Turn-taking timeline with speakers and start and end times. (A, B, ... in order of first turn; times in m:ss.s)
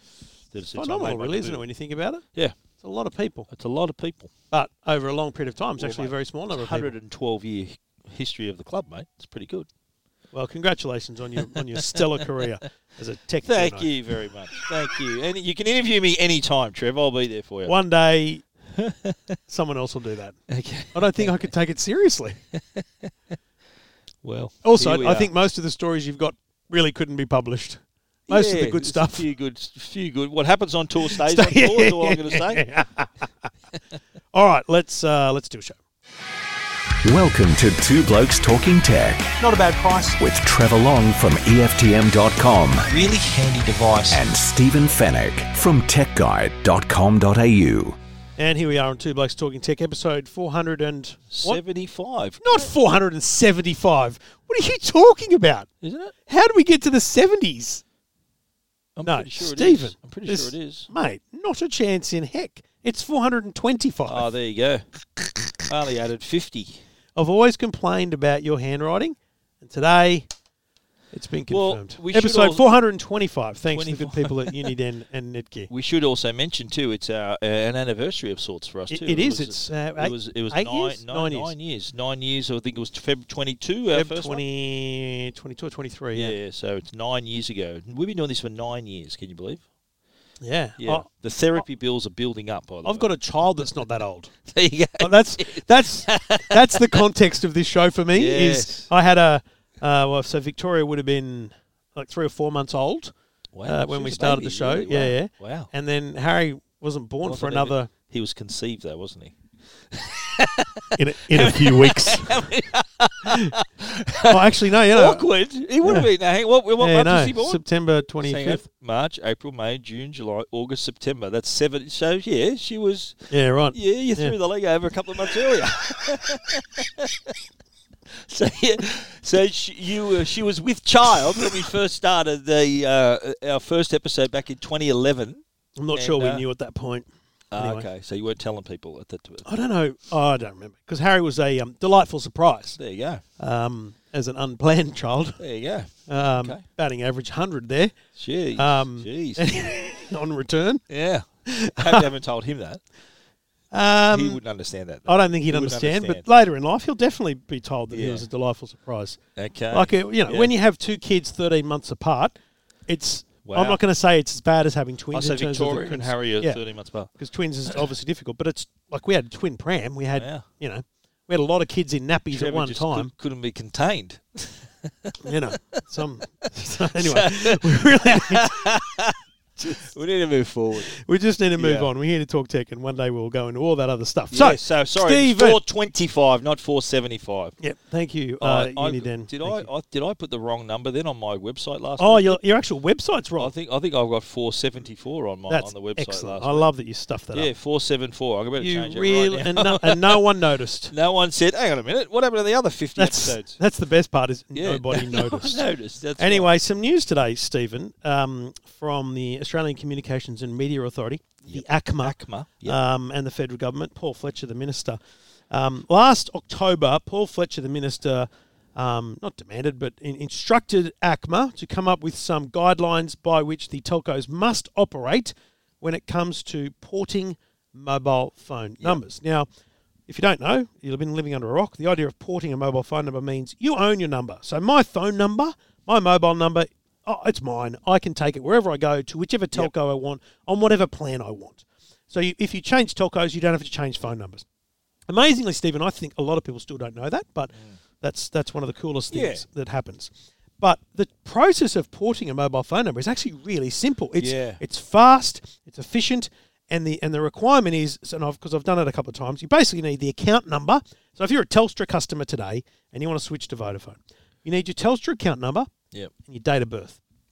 0:00.5-0:01.6 A
0:00.7-0:02.2 B
0:02.8-0:03.5 B
0:03.5-0:04.3 A
0:04.5-0:06.9 B
0:05.8-0:09.7 A
0:10.3-0:13.9 B
0:11.4-0:12.5 A
0:13.4-0:17.7 A
0:17.7-0:18.4 B
0:18.8-0:19.4 A
0:19.5-0:20.4 B
0:20.5-0:21.3 A
0:20.9-0:22.4 B
0:22.5-0:23.1 A
0:24.2-0:25.3 A
0:24.6-0:29.2 B
0:28.3-0:32.6 A
0:31.0-0:33.5 B
0:34.3-0:35.8 B
0:37.0-0:39.4 C
0:39.4-0:40.2 B
0:40.2-0:42.9 C
0:42.9-0:44.2 A
0:44.1-0:48.0 C
0:48.4-0:51.6 B
0:51.3-0:52.7 A
0:52.4-0:55.7 B
0:55.8-0:56.1 A
0:56.3-0:57.8 B
0:59.0-1:00.9 A
0:59.0-1:04.2 B
1:04.1-1:04.9 A
1:05.6-1:06.8 A
1:07.2-1:10.3 B
1:11.1-1:15.7 B
1:11.5-1:12.7 A
1:13.7-1:14.7 A
1:15.7-1:24.4 A
1:18.9-1:21.5 B
1:23.9-1:26.4 B
1:26.1-1:29.6 A
1:30.4-1:31.1 B
1:30.8-1:33.1 A
1:32.8-1:34.3 B
1:34.5-1:37.0 A
1:35.0-1:43.1 B
1:38.1-1:38.9 A
1:43.5-1:45.7 A
1:43.7-1:47.9 B
1:47.2-1:49.4 A
1:49.9-1:57.6 A
1:51.0-1:52.4 B
1:54.3-1:55.2 B
1:55.8-1:56.1 B
1:56.8-1:58.6 B
1:58.2-2:07.4 A
2:03.3-2:04.4 B
2:08.1-2:15.4 A
2:15.8-2:17.9 B
2:15.9-2:16.4 A
2:17.5-2:19.4 A
2:19.4-2:22.8 B
2:22.8-2:23.2 A
2:23.4-2:25.4 B
2:25.4-2:26.6 A
2:26.1-2:28.0 B
2:28.2-2:29.7 A
2:28.6-2:30.8 B
2:30.9-2:32.8 A
2:31.5-2:32.1 B
2:33.7-2:34.4 B
2:34.1-2:36.2 A
2:35.1-2:39.2 B
2:37.9-2:38.3 A
2:39.4-2:40.5 A
2:39.7-2:42.3 B
2:42.9-2:53.1 B
2:43.4-2:43.8 A
2:45.1-2:47.1 A
2:50.2-2:50.4 A
2:52.3-2:55.8 A
2:55.2-2:58.7 B
2:57.0-3:00.9 A
3:00.9-3:05.6 B
3:01.6-3:01.9 A
3:04.3-3:07.6 A
3:07.6-3:09.7 B
3:08.4-3:12.4 A
3:12.0-3:13.5 B
3:13.4-3:16.7 A
3:15.5-3:17.5 B
3:17.3-3:20.3 A
3:18.6-3:20.9 B
3:20.9-3:23.6 A
3:23.0-3:25.6 B
3:24.6-3:26.5 A
3:26.2-3:35.0 B
3:31.5-3:32.8 A
3:35.5-3:49.5 B
3:50.1-4:04.4 B
4:05.1-4:25.7 B
4:09.1-4:09.4 A
4:14.2-4:14.6 A
4:26.2-4:27.0 B